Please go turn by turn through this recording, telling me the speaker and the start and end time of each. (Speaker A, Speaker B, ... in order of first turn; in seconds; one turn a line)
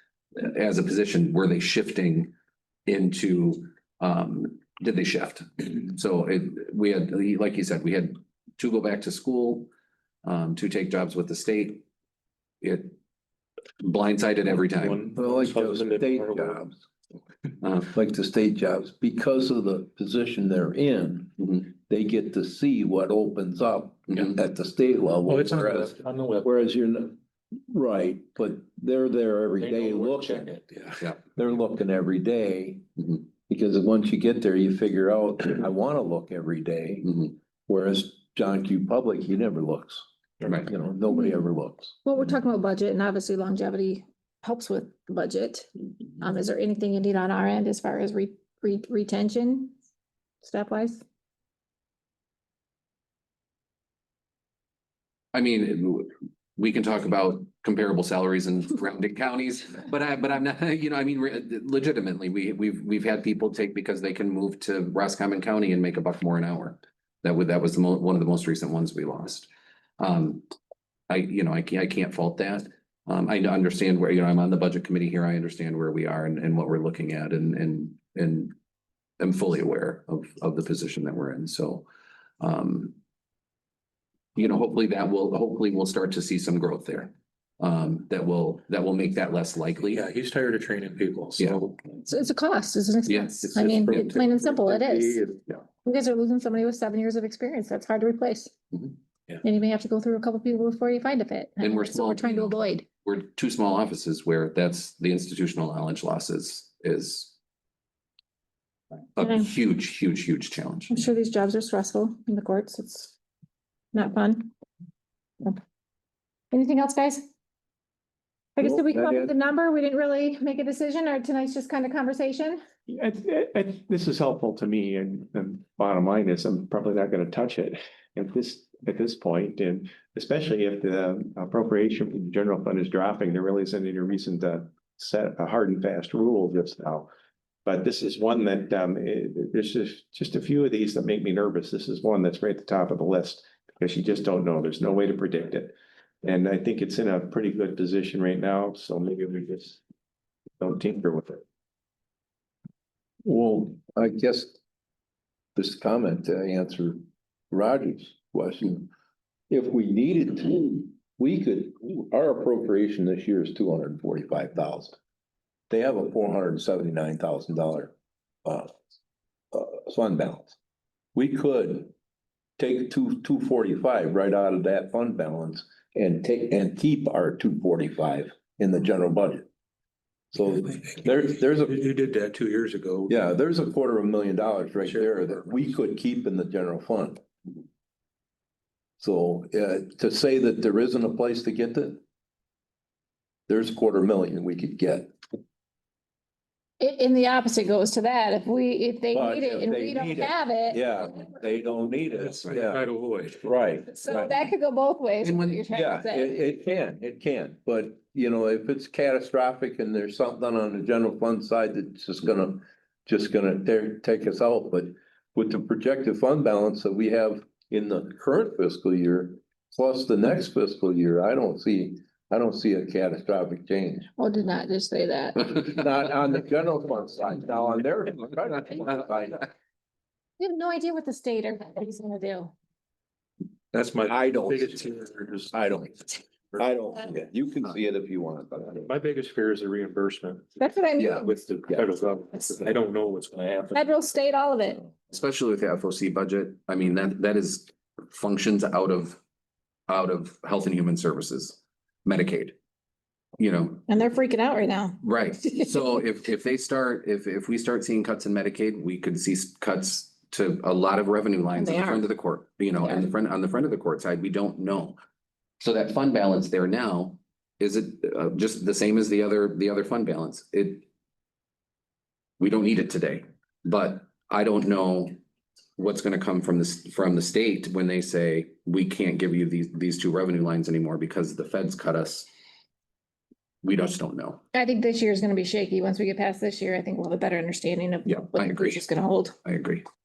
Speaker A: 0.4-2.3
Speaker A: 2.9-9.7
Speaker A: 10.2-11.8
Speaker A: 12.6-13.0
Speaker A: 13.8-15.1
Speaker B: 14.8-16.6
Speaker C: 15.2-16.8
Speaker A: 17.6-17.9
Speaker C: 17.9-27.2
Speaker A: 24.1-24.4
Speaker B: 25.3-26.5
Speaker C: 27.7-30.5
Speaker B: 29.6-31.1
Speaker C: 31.4-42.0
Speaker D: 42.0-49.8
Speaker D: 50.4-51.0
Speaker A: 55.3-69.5
Speaker A: 70.0-70.5
Speaker A: 71.1-78.5
Speaker A: 79.2-81.9
Speaker A: 82.4-83.0
Speaker A: 84.3-90.1
Speaker B: 89.9-91.8
Speaker A: 91.4-91.7
Speaker D: 92.1-95.2
Speaker A: 93.1-93.4
Speaker C: 93.4-95.6
Speaker D: 95.8-98.5
Speaker D: 99.4-102.9
Speaker A: 101.6-107.4
Speaker A: 109.2-111.0
Speaker D: 109.2-109.5
Speaker D: 110.9-113.2
Speaker D: 113.9-114.5
Speaker D: 116.5-117.3
Speaker D: 118.6-122.6
Speaker C: 118.6-119.3
Speaker E: 122.9-137.1
Speaker E: 137.7-149.8
Speaker E: 150.6-151.4
Speaker C: 153.2-154.6
Speaker C: 155.6-158.9
Speaker C: 159.5-165.0
Speaker C: 165.7-167.9
Speaker C: 168.4-168.7
Speaker C: 169.5-170.6
Speaker C: 171.2-171.9
Speaker C: 172.6-179.5
Speaker C: 180.3-181.8
Speaker B: 180.8-183.1
Speaker C: 183.1-187.2
Speaker C: 189.0-192.0
Speaker C: 193.5-195.1
Speaker D: 196.8-201.0
Speaker C: 199.1-202.8
Speaker B: 202.2-203.4
Speaker C: 203.4-204.2
Speaker D: 203.9-206.3
Speaker A: 205.2-205.6
Speaker C: 205.7-224.1
Speaker D: 224.2-225.5
Speaker C: 225.4-229.5
Speaker D: 230.4-232.5
Speaker B: 233.7-235.1
Speaker C: 234.0-238.9
Speaker B: 238.9-240.5
Speaker D: 240.6-241.4
Speaker C: 241.0-241.9
Speaker B: 241.6-243.9
Speaker D: 243.7-244.8
Speaker A: 245.1-249.2
Speaker A: 249.9-252.6
Speaker A: 253.4-253.9
Speaker D: 253.9-255.7
Speaker A: 255.0-265.0
Speaker D: 261.6-262.1
Speaker A: 265.6-270.9
Speaker A: 272.4-275.1
Speaker A: 275.8-282.3
Speaker A: 283.6-284.4
Speaker D: 284.5-289.4
Speaker A: 288.1-288.9
Speaker A: 289.4-289.8